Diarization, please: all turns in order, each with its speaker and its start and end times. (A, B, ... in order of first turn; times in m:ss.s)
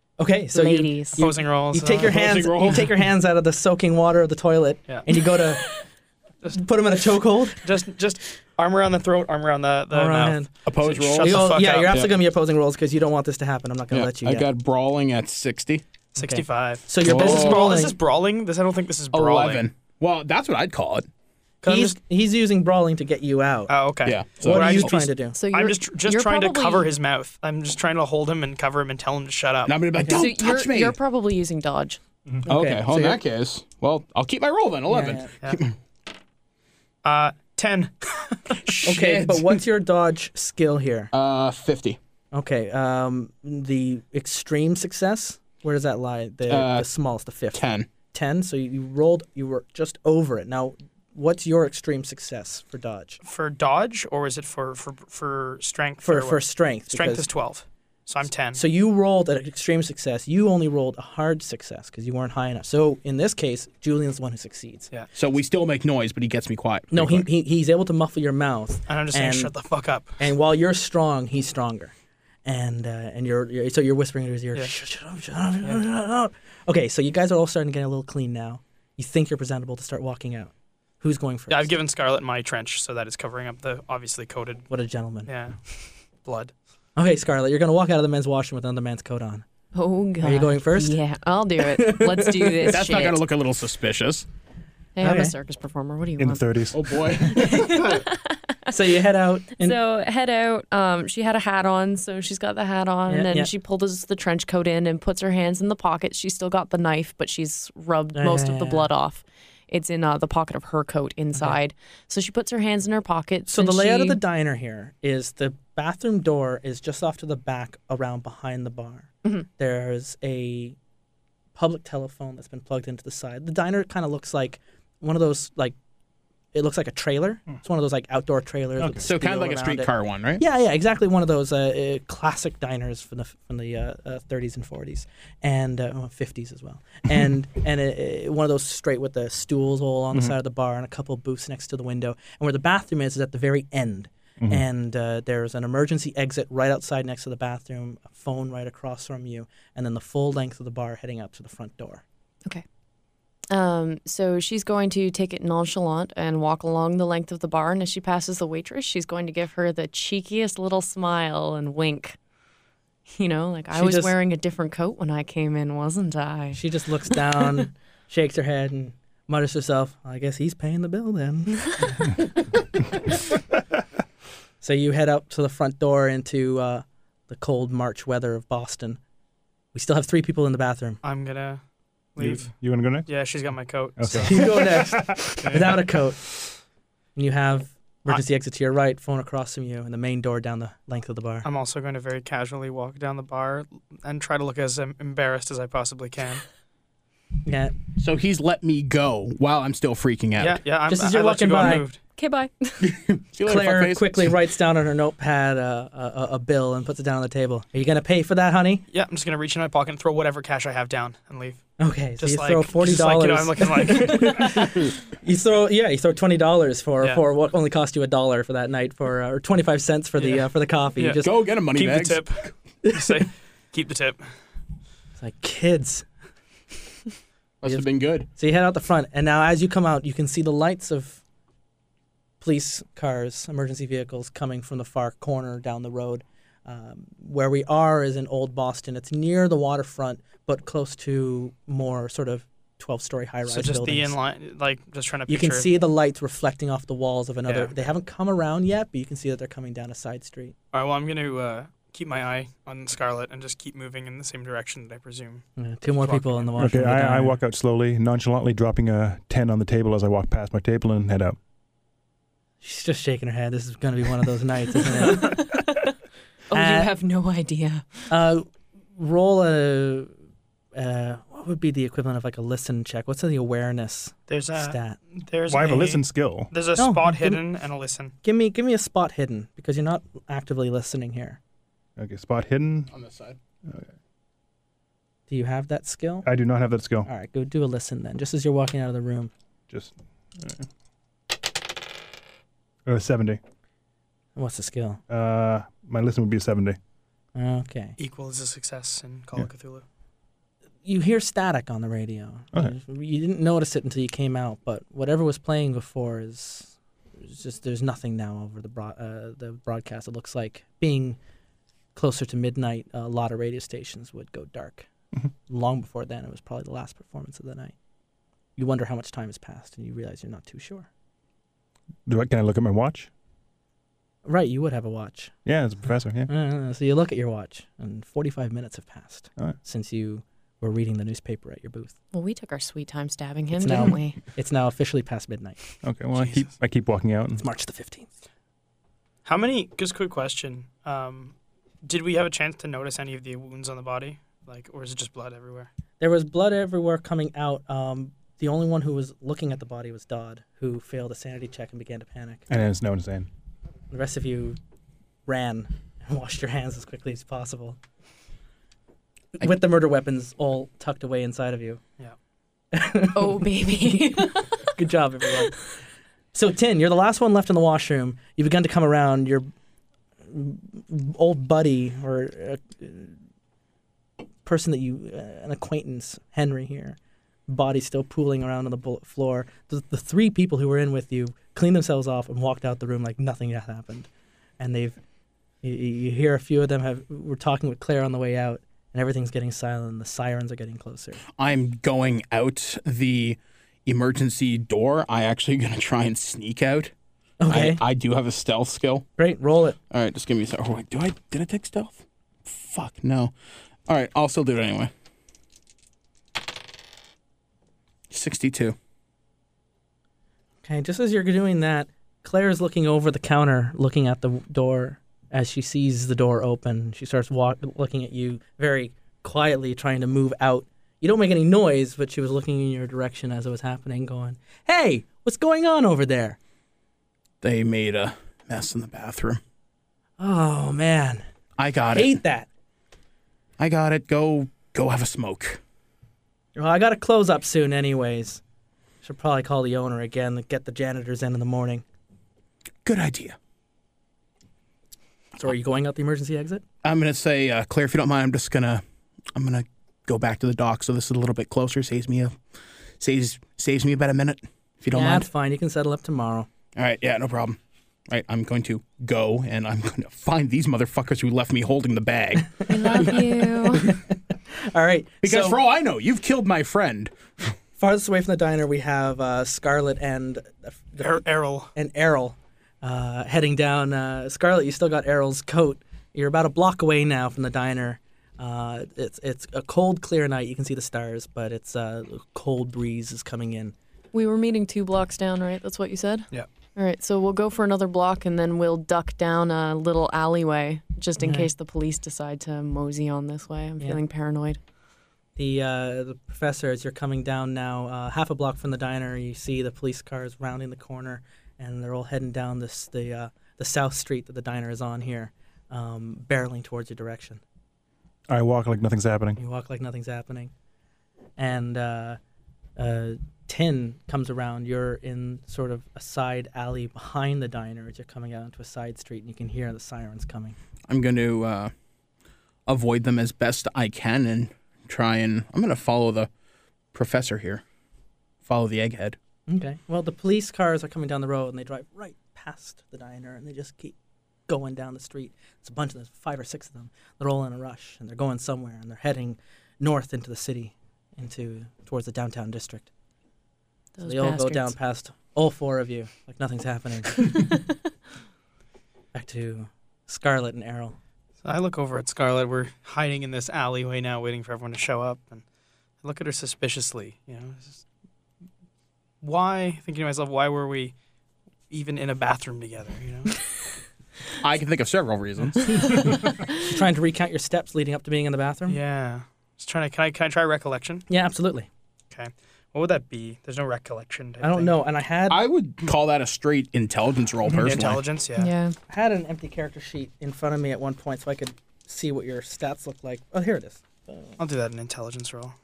0:00.2-0:05.8 A
0:00.5-0:01.2 B
0:01.2-0:02.2 C
0:02.0-0:02.9 D
0:06.5-0:07.7 A
0:07.6-0:12.1 C
0:09.9-0:10.5 A
0:10.6-0:12.1 D
0:11.2-0:14.4 A
0:13.9-0:15.8 D
0:16.1-0:19.6 C
0:16.2-0:17.9 A
0:17.0-0:17.8 D
0:19.1-0:21.1 D
0:21.6-0:22.0 C
0:21.6-0:23.7 A
0:23.7-0:29.7 C
0:24.0-0:24.9 D
0:24.4-0:25.4 A
0:25.3-0:26.9 B
0:29.6-0:31.0 D
0:30.0-0:30.3 A
0:30.1-0:32.0 B
0:32.4-0:35.8 D
0:32.5-0:33.2 A
0:34.9-0:35.3 A
0:37.0-0:38.9 C
0:38.6-0:39.6 D
0:38.8-0:41.1 A
0:41.1-0:42.0 D
0:42.3-0:53.2 A
0:46.5-0:46.9 D
0:47.5-0:47.9 D
0:53.2-0:58.6 C
0:56.0-0:57.3 A
0:58.5-1:04.9 A
1:05.1-1:07.3 D
1:06.9-1:09.5 A
1:08.9-1:10.2 C
1:10.2-1:11.9 A
1:12.4-1:21.7 A
1:21.5-1:24.7 C
1:24.7-1:25.3 A
1:25.2-1:26.5 C
1:27.0-1:29.4 A
1:29.7-1:33.2 B
1:30.2-1:31.0 A
1:31.6-1:32.8 A
1:32.6-1:34.3 D
1:35.0-1:38.7 B
1:35.0-1:35.3 A
1:36.2-1:37.4 E
1:36.7-1:38.0 D
1:38.7-1:39.8 A
1:39.6-1:54.2 B
1:43.1-1:43.5 A
1:48.1-1:48.9 A
1:53.5-2:00.8 A
2:01.5-2:05.7 A
2:06.5-2:32.0 A
2:08.8-2:09.1 E
2:09.0-2:10.4 D
2:33.5-2:42.2 B
2:43.1-2:46.6 B
2:43.7-2:44.1 A
2:46.5-2:52.2 A
2:54.6-2:59.0 A
2:59.7-3:01.0 A
3:01.0-3:01.6 C
3:02.1-3:04.5 C
3:02.2-3:03.1 E
3:04.0-3:05.6 E
3:04.2-3:06.5 A
3:05.4-3:05.7 C
3:07.2-3:11.5 A
3:11.4-3:16.4 C
3:17.4-3:17.8 A
3:18.0-3:20.6 D
3:20.4-3:22.0 C
3:20.9-3:21.9 A
3:22.2-3:23.0 B
3:22.8-3:24.4 D
3:23.4-3:28.8 A
3:28.9-3:31.6 C
3:31.8-3:41.3 A
3:32.2-3:34.7 C
3:40.2-3:44.2 C
3:41.2-3:42.2 D
3:42.9-3:43.2 A
3:45.2-3:46.0 A
3:47.6-3:48.3 D
3:47.6-3:51.2 A
3:52.4-4:04.1 A
4:03.4-4:05.7 C
4:05.3-4:10.5 A
4:07.4-4:07.7 C
4:10.7-4:15.5 C
4:15.6-4:17.4 A
4:16.0-4:16.5 C
4:16.6-4:21.4 E
4:22.6-4:25.4 A
4:25.0-4:25.9 B
4:26.5-4:28.1 B
4:26.5-4:26.9 A
4:28.1-4:30.1 A
4:30.7-4:35.0 A
4:34.3-4:38.1 C
4:35.5-4:36.5 E
4:36.8-4:37.4 A
4:38.2-4:41.4 A
4:42.0-4:42.9 E
4:42.9-4:43.4 D
4:45.3-4:46.3 A
4:46.2-4:47.1 E
4:47.0-4:49.3 A
4:49.7-4:50.6 E
4:52.8-4:53.4 E
4:54.4-4:55.0 A
4:55.1-4:56.8 E
4:57.3-4:58.0 A
4:58.0-4:59.8 C
5:00.8-5:11.2 A
5:11.9-5:14.9 A
5:15.5-5:17.7 A
5:18.6-5:20.9 A
5:22.0-5:23.1 E
5:24.2-5:25.4 A
5:25.4-5:26.3 E
5:26.3-5:31.9 A
5:32.1-5:34.2 B
5:33.6-5:35.6 A
5:35.8-5:37.4 E
5:36.1-5:36.4 C
5:37.4-5:38.1 A
5:39.2-5:45.7 C
5:46.0-5:52.5 A
5:52.5-5:53.3 E
5:53.9-5:54.6 A
5:55.2-5:57.8 A
5:59.4-6:01.8 A
6:02.7-6:05.7 A
6:03.1-6:04.7 B
6:06.3-6:09.5 A
6:10.3-6:13.1 A
6:14.4-6:17.0 A
6:17.5-6:25.0 A
6:25.6-6:31.2 A
6:31.4-6:36.9 D
6:37.4-6:37.8 A
6:37.5-6:39.1 D
6:39.2-6:39.8 A
6:39.9-6:43.3 D
6:43.9-6:44.9 D
6:48.1-6:48.8 D
6:50.6-7:06.4 A
7:07.4-7:09.4 D
7:10.2-7:11.2 A
7:11.6-7:12.2 D
7:11.9-7:12.5 A
7:13.6-7:15.6 D
7:16.5-7:18.4 A
7:19.0-7:21.8 A
7:22.8-7:23.4 D
7:25.4-7:26.6 A
7:26.8-7:28.8 D
7:29.3-7:32.4 D
7:33.0-7:35.3 D
7:34.9-7:36.5 A
7:36.7-7:43.1 D
7:42.7-7:43.9 B
7:43.7-7:45.6 A
7:45.2-7:47.5 D
7:47.8-7:51.2 A
7:51.0-7:51.7 C
7:51.7-8:03.7 A
8:04.1-8:14.6 B
8:11.2-8:11.5 A
8:15.4-8:27.4 A
8:28.3-8:29.4 E
8:29.4-8:30.5 A
8:31.4-8:32.2 A
8:32.8-8:40.6 A
8:40.9-8:41.7 D
8:42.6-8:46.3 D
8:46.9-8:47.6 D
8:48.4-8:49.2 D
8:49.5-8:53.9 A
8:54.5-9:02.9 A
9:04.0-9:04.7 B
9:04.0-9:07.6 A
9:09.1-9:11.0 A
9:11.4-9:15.4 C
9:16.0-9:17.8 C
9:19.2-9:20.9 C
9:21.7-9:23.4 C
9:24.4-9:25.9 D
9:26.0-9:28.8 A
9:28.7-9:31.0 C
9:31.1-9:31.7 A
9:32.1-9:34.8 C
9:34.4-9:35.4 A
9:35.3-9:38.0 D
9:37.6-9:38.5 C
9:38.4-9:38.8 B
9:38.9-9:44.3 A
9:44.4-9:45.5 C